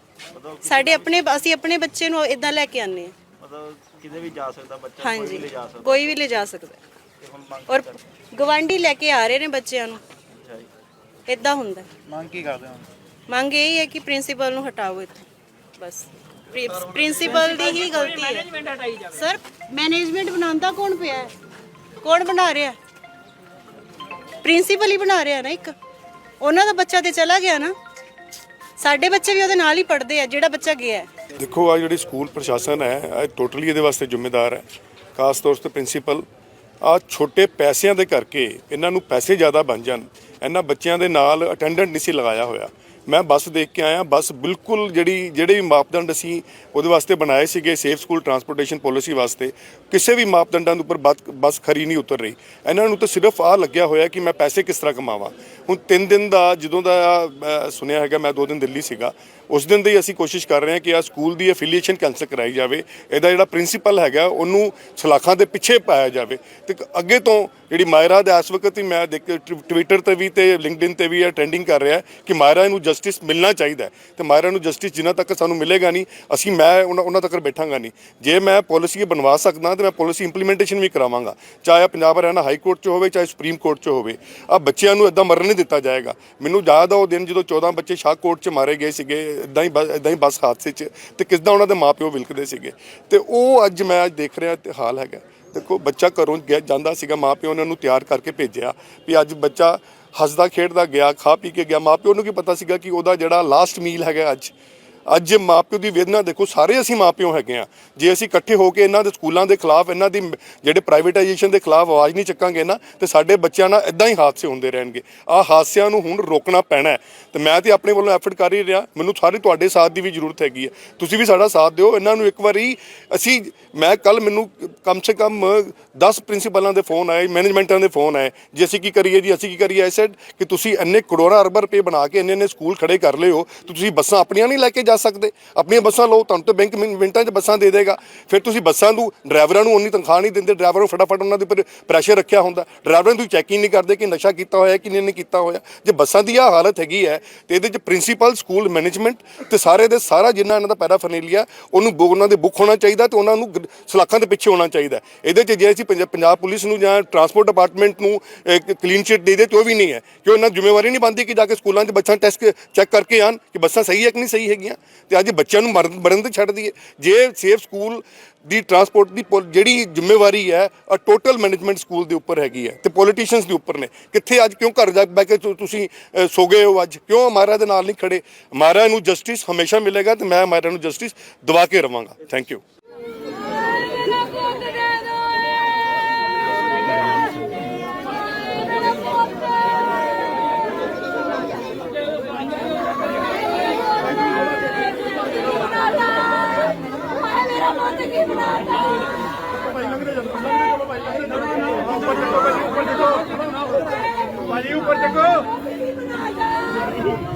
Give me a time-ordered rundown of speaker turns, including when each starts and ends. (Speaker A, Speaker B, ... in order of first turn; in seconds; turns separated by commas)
Speaker A: 0.3-1.1, Speaker B: 0.6-3.1, Speaker A: 3.4-6.2, Speaker B: 5.0-6.8, Speaker A: 7.2-8.0, Speaker B: 7.7-10.0, Speaker A: 10.3-10.7, Speaker B: 11.3-11.9, Speaker A: 12.2-12.7, Speaker B: 13.3-15.3, Speaker B: 15.8-18.5, Speaker B: 19.1-21.3, Speaker B: 22.0-22.8, Speaker B: 24.4-25.7, Speaker B: 26.4-27.7, Speaker B: 28.8-31.1, Speaker C: 31.4-36.2, Speaker C: 36.8-104.5, Speaker C: 105.1-182.6